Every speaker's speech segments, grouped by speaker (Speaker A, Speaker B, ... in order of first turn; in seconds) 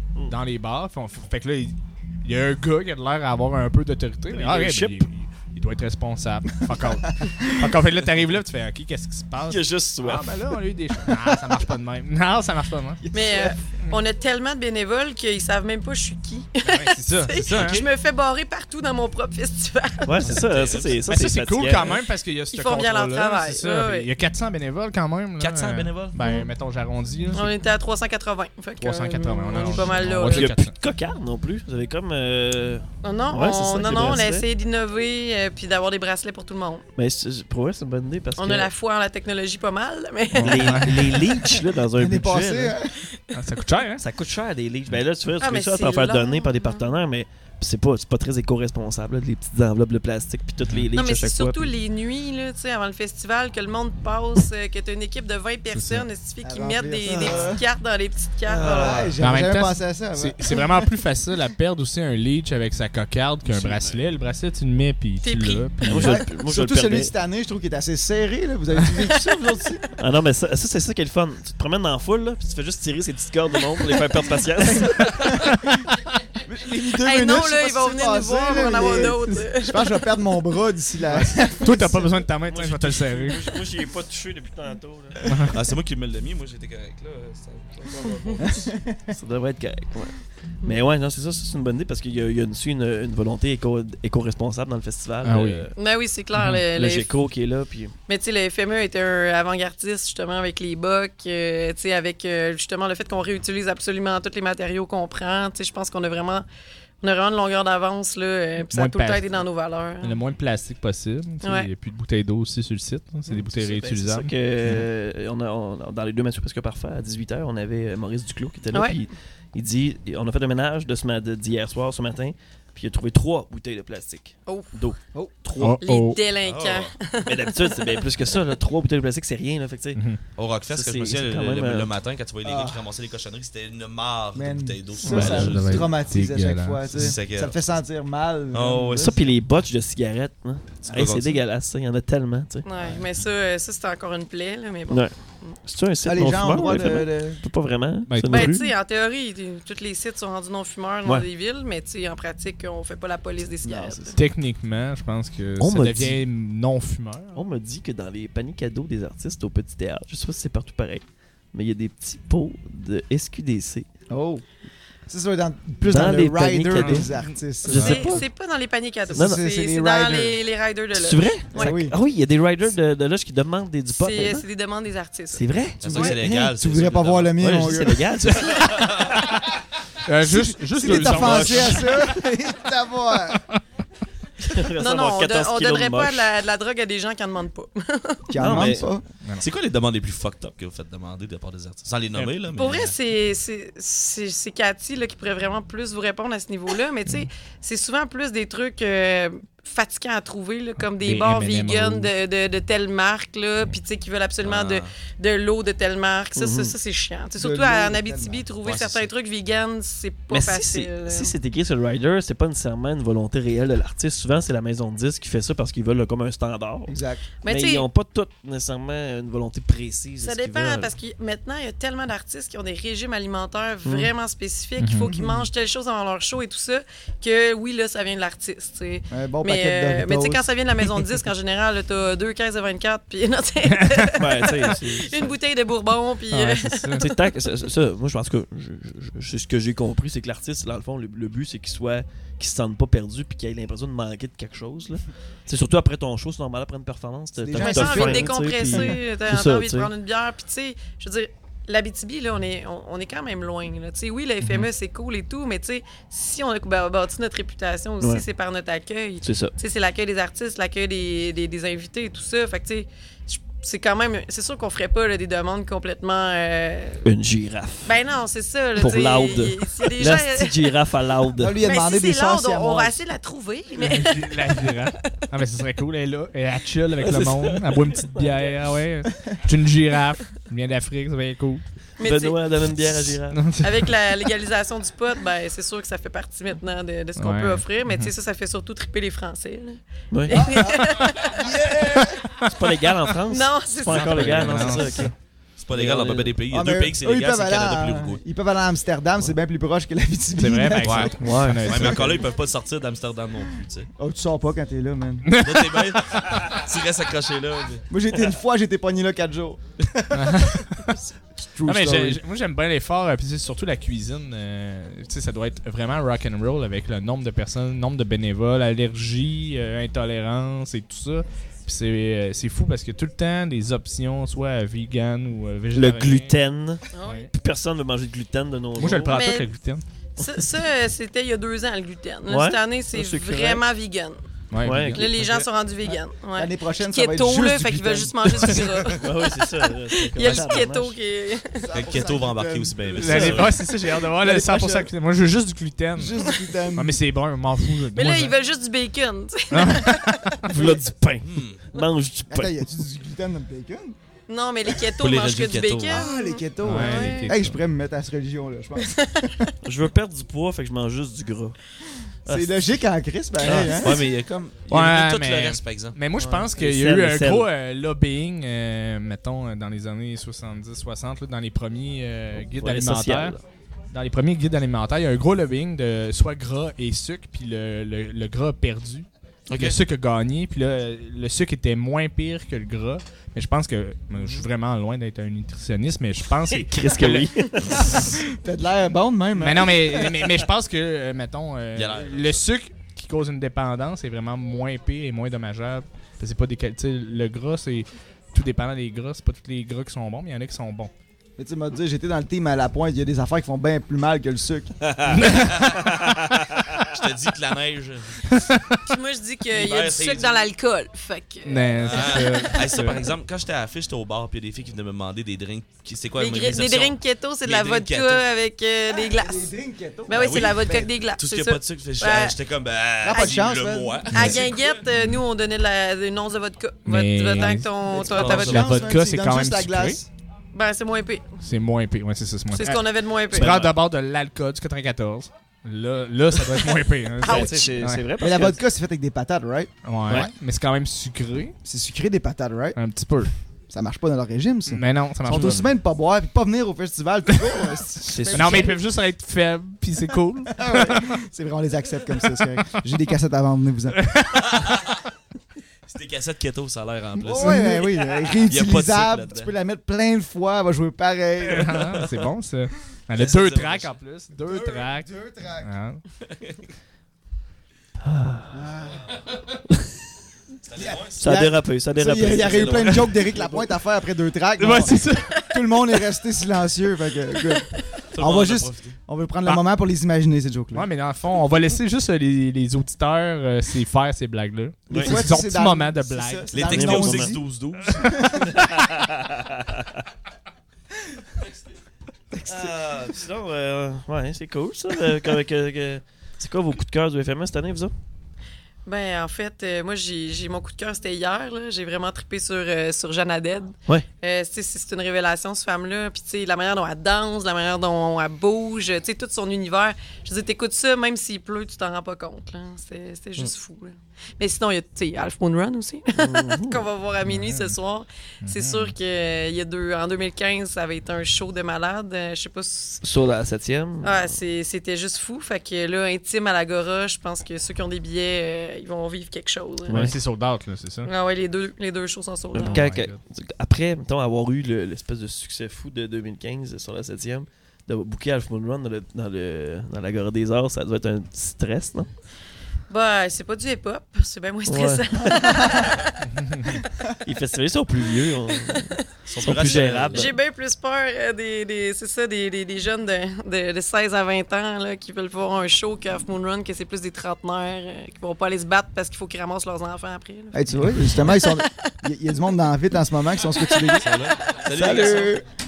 Speaker A: 0.3-13.0, 16.6-17.9, 21.1-27.6, 28.8-30.8, 40.4-41.3, 43.3-44.0, 50.6-50.9, 55.7-56.1, 59.2-66.2, 81.2-83.6, 85.3-85.6, 95.2-95.7, 96.4-96.6, 108.7-109.3, 110.0-114.8, 125.6-126.2, 129.9-130.2, 135.0-137.2, 148.1-148.6, 154.1-157.4, 166.8-167.2, 180.1-181.9, 200.9-202.1, 224.8-225.1, 233.7-234.1, 236.3-237.1, 254.4-254.7, 273.8-281.6, 283.3-283.9, 287.2-288.1, 293.9-295.1, 300.4-302.2, 305.2-306.2, 310.1-311.0, 311.6-326.4, 327.0-327.3, 328.8-329.9, 334.5-335.4, 338.4-338.8, 342.9-348.4, 349.5-350.7, 356.6-357.6, 364.7-373.4, 373.9-388.0, 389.4-400.9, 405.1-405.6, 408.3-408.8, 411.4-413.0, 424.1-425.2, 426.9-427.7, 428.3-430.0, 431.4-438.0, 439.8-441.6, 442.8-443.3, 444.7-445.7, 447.3-447.6, 448.3-451.2, 453.9-454.6, 461.5-465.1, 465.6-466.0, 474.6-475.5, 480.7-486.7, 517.3-517.8, 518.4-519.0, 529.9-531.1, 532.6-533.2, 546.3-546.8
Speaker B: 4.3-5.1, 9.5-10.3, 20.1-22.0, 29.6-34.5, 37.0-38.7, 40.4-42.8, 44.0-51.7, 57.1-57.5, 58.5-59.2, 63.5-64.0, 65.8-67.1, 70.0-75.2, 82.4-85.3, 89.1-95.7, 96.7-97.9, 113.3-125.8, 127.2-130.0, 130.7-131.9, 139.0-142.7, 144.9-148.7, 155.6-156.2, 157.3-163.9, 165.8-167.1, 167.7-168.3, 169.1-169.4, 170.9-174.5, 175.3-176.1, 177.4-179.2, 184.4-186.3, 188.4-188.9, 206.4-206.8, 210.3-220.9, 223.8-224.1, 234.2-235.4, 237.0-249.9, 259.2-259.6, 267.0-268.0, 268.8-271.6, 277.0-278.7, 282.0-283.4, 290.1-290.4, 292.4-295.1, 295.7-296.4, 301.2-302.0, 325.7-329.2, 332.3-333.6, 334.6-335.4, 338.9-341.0, 350.4-352.6, 359.6-361.6, 362.3-362.8, 363.4-363.7, 366.2-367.5, 372.4-373.4, 386.5-388.1, 404.9-405.3, 406.1-406.5, 433.3-433.8, 437.2-438.6, 445.3-445.7, 448.0-448.8, 468.0-468.5, 471.2-473.7, 486.6-487.4, 488.4-490.0, 493.1-497.9, 516.1-516.9, 523.0-524.4, 529.9-530.2, 532.5-542.1, 544.7-545.0, 547.2-550.4, 564.8-565.3
Speaker C: 13.0-13.6, 42.0-43.1, 56.4-57.6, 58.6-60.9, 66.0-69.8, 74.7-75.8, 76.5-82.1, 88.4-89.2, 132.4-132.8, 134.3-139.2, 146.0-147.4, 153.6-154.1, 164.1-164.4, 165.1-168.2, 169.1-170.4, 171.6-172.0, 175.9-178.5, 180.2-183.4, 188.3-189.0, 207.4-208.5, 216.9-217.3, 225.1-225.5, 229.1-230.5, 247.4-248.9, 271.4-273.0, 290.3-292.2, 296.5-301.1, 301.8-302.2, 304.0-305.3, 307.9-310.6, 311.4-312.2, 336.3-338.8, 340.2-340.7, 341.5-344.9, 346.0-347.0, 352.3-353.9, 355.9-359.5, 362.3-364.1, 387.9-390.1, 401.4-404.8, 418.9-420.9, 423.0-424.4, 427.9-430.1, 438.2-440.2, 441.6-442.8, 443.7-448.8, 450.6-454.0, 457.2-461.9, 464.4-465.7, 468.5-469.1, 470.8-480.9, 484.9-487.4, 488.0-488.5, 492.3-492.9, 545.4-546.0, 560.5-565.5
Speaker D: 13.1-20.3, 22.5-24.1, 26.2-26.5, 27.3-30.5, 33.0-36.9, 38.4-41.5, 45.4-46.9, 51.0-59.0, 65.2-65.7, 69.1-69.5, 77.0-80.0, 88.0-88.3, 95.8-97.1, 98.1-106.5, 107.0-110.2, 111.4-111.7, 125.8-128.0, 142.7-145.1, 148.3-154.2, 167.7-171.8, 174.0-176.1, 184.8-188.3, 192.6-211.3, 217.4-217.9, 220.2-237.1, 247.6-267.0, 267.9-270.7, 271.6-275.1, 282.0-282.4, 283.6-291.5, 293.3-294.9, 326.9-327.3, 329.1-329.5, 330.2-334.2, 334.8-341.8, 347.9-350.4, 354.3-357.3, 358.8-359.3, 408.9-413.0, 416.2-419.5, 420.1-422.4, 423.1-423.6, 424.1-428.8, 430.5-431.4, 432.5-433.6, 437.2-437.6, 498.9-523.0, 524.0-530.2, 531.0-532.9, 542.9-546.2, 548.5-549.0, 550.1-561.9, 563.5-564.2
Speaker E: 17.5-17.9, 20.2-21.0, 25.4-26.2, 85.5-88.7, 126.4-126.9, 130.4-135.9, 136.9-137.6, 138.5-139.3, 140.8-141.4, 175.8-177.4, 178.5-179.2, 181.1-182.0, 189.4-192.9, 204.4-204.9, 208.6-209.1, 295.6-298.2, 300.8-303.9, 305.4-307.9, 341.8-343.6, 351.2-351.6, 355.0-356.1, 363.5-366.0, 379.5-379.8, 391.8-392.5, 405.4-406.1, 406.8-408.3, 409.5-410.5, 411.8-418.2, 420.1-424.8, 428.1-428.6, 454.4-454.9, 455.9-459.5, 463.2-464.0, 466.2-466.7, 470.7-471.2, 472.5-472.8, 478.1-479.0, 486.5-488.5, 492.5-493.2, 549.3-550.4, 564.0-565.4